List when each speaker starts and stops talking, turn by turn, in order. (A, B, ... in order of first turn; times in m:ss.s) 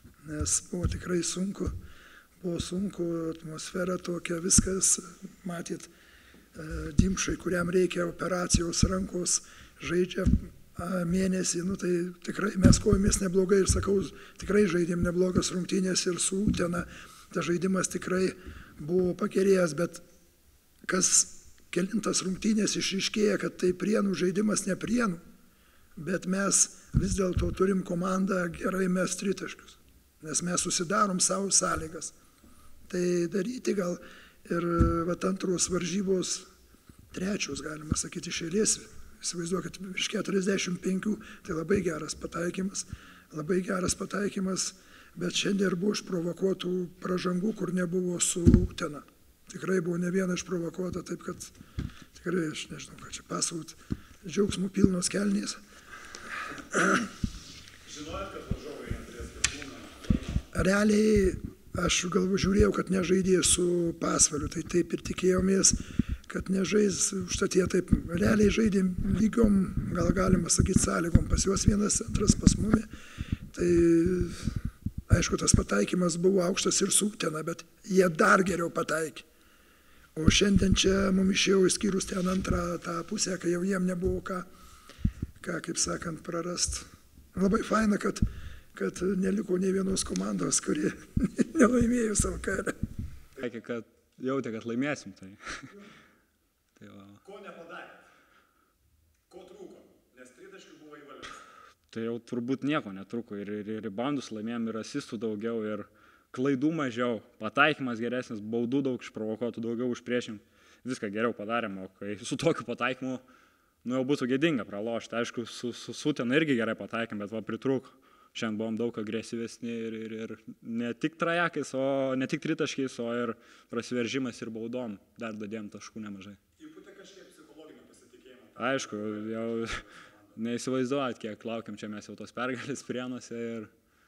0:00.2-0:01.7 A
0:02.4-0:05.9 A
0:06.5-0:20.0 A
0:20.9-0:25.2 A
0:26.0-0:32.1 A
0:32.9-0:36.5 A
0:37.1-0:51.5 A
0:52.2-0:55.6 A
0:56.7-0:57.0 A
0:58.0-0:59.8 B
1:00.5-1:12.9 A
1:13.5-1:14.5 A
1:15.1-1:19.2 A
1:20.1-1:24.5 A
1:25.4-1:28.2 A
1:28.7-1:32.7 A
1:33.4-1:35.7 C
1:36.8-1:37.3 C
1:37.4-1:37.9 B
1:39.3-1:41.1 B
1:41.9-1:53.2 C
1:53.8-2:06.4 C
2:06.6-2:08.1 B
2:08.5-2:09.8 C
2:10.4-2:13.7 C